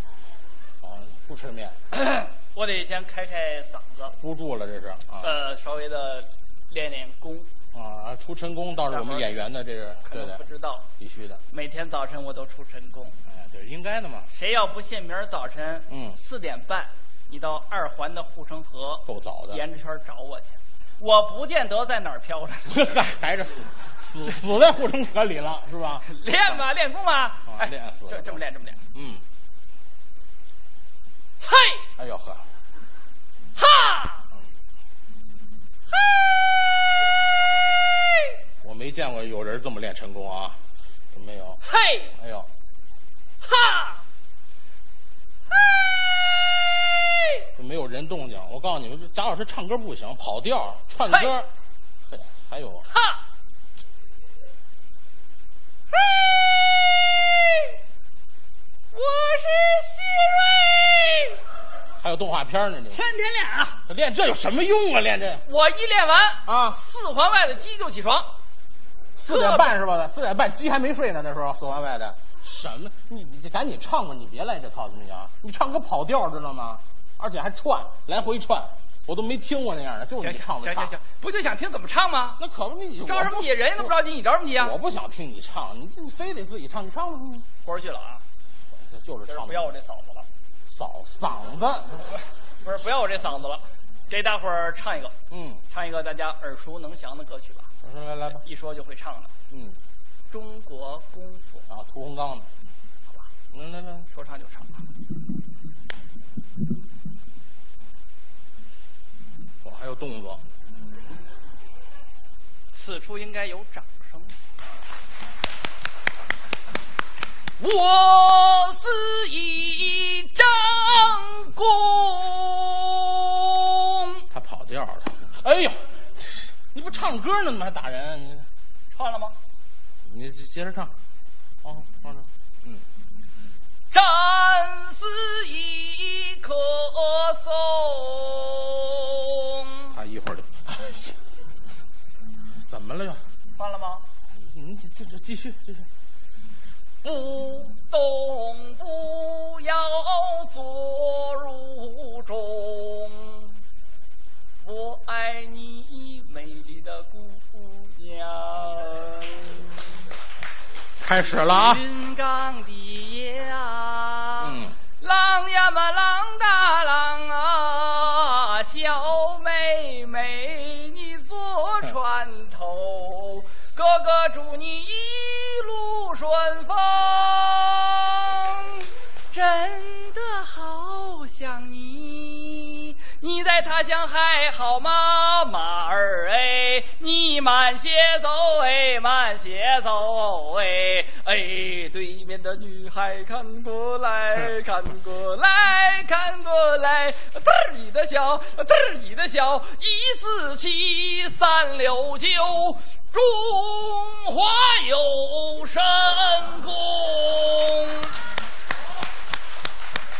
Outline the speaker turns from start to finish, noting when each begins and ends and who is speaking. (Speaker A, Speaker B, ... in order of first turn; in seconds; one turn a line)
Speaker A: 0.8-1.8
Speaker B: 1.9-4.1
Speaker A: 4.2-5.3
Speaker B: 5.2-7.5
Speaker A: 7.7-10.4
Speaker B: 8.9-9.4
Speaker B: 10.0-10.9
Speaker A: 11.0-11.4
Speaker B: 11.5-13.1
Speaker A: 13.3-14.3
Speaker B: 14.3-22.9
Speaker A: 15.9-16.1
Speaker A: 19.1-19.6
Speaker A: 22.7-26.6
Speaker B: 26.1-28.8
Speaker A: 27.5-28.4
Speaker A: 28.9-29.2
Speaker B: 31.4-31.8
Speaker A: 32.0-32.4
Speaker B: 33.5-34.2
Speaker B: 35.9-37.1
Speaker B: 37.9-38.3
Speaker A: 38.6-40.6
Speaker A: 41.1-41.6
Speaker B: 41.6-42.1
Speaker A: 42.2-42.5
Speaker B: 43.4-44.0
Speaker B: 45.5-47.4
Speaker A: 47.5-51.5
Speaker B: 51.1-51.3
Speaker A: 52.1-52.8
Speaker B: 52.9-53.2
Speaker B: 55.9-57.7
Speaker B: 58.9-61.4
Speaker A: 62.0-63.0
Speaker B: 62.9-63.8
Speaker A: 63.9-65.4
Speaker B: 65.5-68.3
Speaker A: 66.5-66.8
Speaker A: 69.2-80.9
Speaker B: 69.2-69.7
Speaker B: 80.2-82.4
Speaker A: 82.4-83.9
Speaker B: 83.0-84.8
Speaker A: 84.5-87.5
Speaker B: 87.6-88.2
Speaker A: 88.8-89.7
Speaker B: 89.3-90.3
Speaker A: 90.7-92.0
Speaker B: 92.6-95.1
Speaker A: 95.3-95.6
Speaker B: 95.7-97.7
Speaker A: 97.8-98.4
Speaker B: 98.3-99.3
Speaker A: 99.5-99.8
Speaker B: 100.3-101.6
Speaker A: 101.7-102.5
Speaker A: 103.5-104.1
Speaker B: 104.1-104.8
Speaker A: 109.6-110.4
Speaker B: 112.7-114.3
Speaker B: 117.6-124.2
Speaker A: 124.3-128.5
Speaker B: 128.9-129.3
Speaker A: 130.0-130.9
Speaker A: 131.6-132.8
Speaker B: 133.9-140.0
Speaker A: 139.9-141.1
Speaker A: 142.6-143.2
Speaker B: 143.6-144.0
Speaker A: 144.3-145.9
Speaker B: 147.0-153.6
Speaker B: 154.6-159.6
Speaker A: 161.0-161.8
Speaker B: 161.4-208.1
Speaker A: 164.4-164.7